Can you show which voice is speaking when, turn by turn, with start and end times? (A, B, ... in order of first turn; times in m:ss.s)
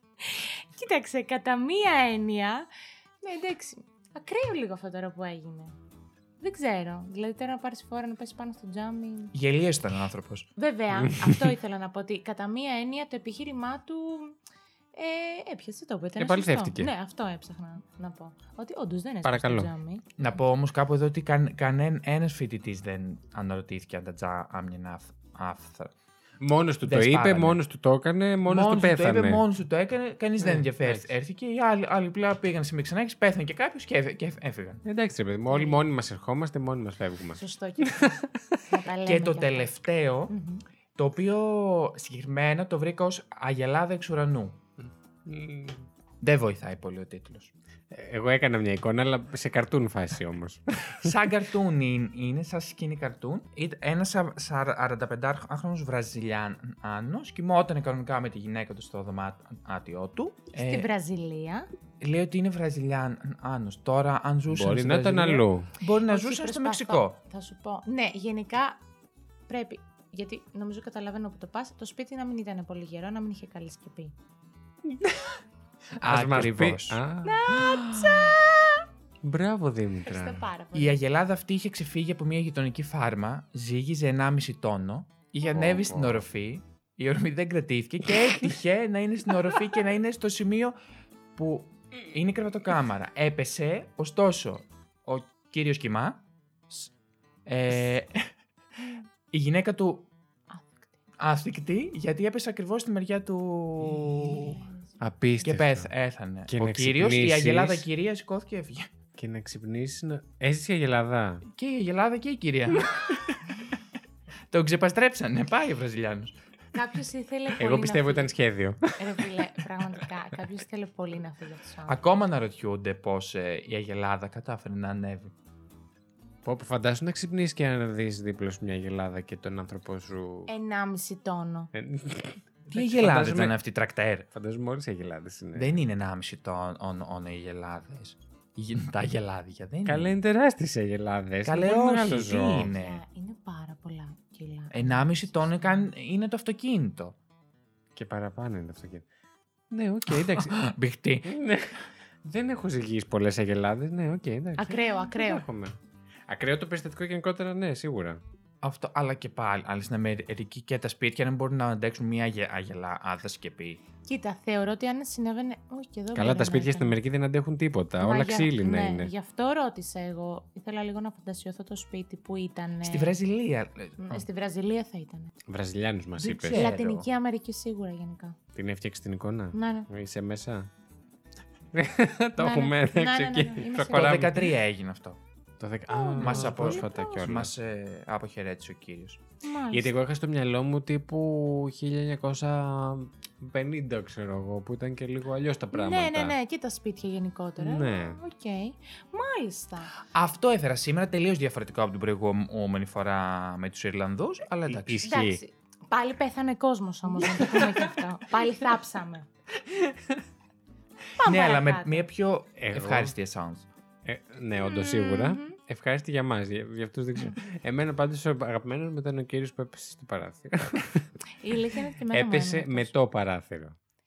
0:00.2-0:02.7 A
0:03.2-0:05.8 A
0:06.4-0:09.3 A
0:09.3-0:10.5 B
0:10.6-0:14.4 A
0:10.9-0:11.4 C
0:14.9-0:20.0 A
0:16.2-0:16.9 C
0:19.2-0:19.7 C
0:20.2-0:25.9 B
0:26.4-0:29.4 C
0:26.8-0:27.6 B
0:28.4-0:34.8 B
0:30.4-0:31.1 C
0:34.8-0:38.6 C
0:35.5-0:35.8 A
0:37.4-0:40.6 A
0:39.0-0:40.3 B
0:41.0-0:44.6 B
0:44.8-0:45.9 C
0:46.2-0:47.5 B
0:47.9-0:51.2 C
0:51.0-1:00.9 B
1:00.6-1:01.7 A
1:02.0-1:07.2 B
1:04.5-1:05.7 C
1:06.1-1:08.8 A
1:09.5-1:14.1 A
1:14.9-1:15.2 C
1:16.0-1:17.0 B
1:16.0-1:18.3 C
1:17.2-1:18.8 A
1:19.2-1:20.4 C
1:20.0-1:21.0 A
1:20.7-1:30.8 B
1:25.4-1:26.2 C
1:31.4-1:36.9 B
1:37.4-1:38.3 B
1:39.3-1:40.1 B
1:40.5-1:40.9 A
1:41.2-1:44.6 B
1:45.0-1:45.9 C
1:45.4-1:48.9 B
1:46.5-1:47.8 C
1:49.1-1:51.4 C
1:51.5-1:53.4 B
1:54.5-1:56.4 B
1:56.7-1:58.3 A
1:57.6-1:59.4 C
1:59.0-2:02.0 A
2:01.9-2:05.3 B
2:06.4-2:10.5 C
2:10.5-2:11.7 A
2:11.7-2:13.6 C
2:12.7-2:14.3 B
2:14.3-2:15.8 C
2:15.6-2:20.2 B
2:19.8-2:22.7 C
2:21.4-2:23.0 B
2:22.7-2:25.9 A
2:24.7-2:27.2 B
2:28.0-2:29.0 C
2:29.7-2:30.7 C
2:30.1-2:31.3 B
2:31.2-2:35.8 C
2:34.6-2:35.4 A
2:36.3-2:38.2 C
2:38.6-2:43.8 B
2:44.0-2:47.0 A
2:46.1-2:49.1 C
2:48.0-2:53.1 A
2:52.8-2:54.2 B
2:54.0-2:55.3 A
2:55.5-2:56.8 C
2:56.2-2:57.0 B
2:56.5-2:58.4 A
2:58.5-3:00.7 C
2:59.5-2:59.9 A
3:01.7-3:04.4 C
3:02.4-3:04.4 A
3:03.9-3:05.2 B
3:05.6-3:07.5 C
3:05.9-3:07.3 A
3:06.2-3:09.2 B
3:09.4-3:09.9 A
3:09.7-3:16.4 C
3:15.7-3:19.9 A
3:17.6-3:18.2 C
3:20.1-3:25.1 B
3:24.7-3:25.4 C
3:25.0-3:29.3 A
3:29.7-3:30.2 C
3:31.2-3:32.1 A
3:31.2-3:33.6 B
3:32.6-3:33.1 C
3:34.0-3:41.1 C
3:34.6-3:35.6 A
3:41.4-3:42.9 A
3:42.1-3:43.7 C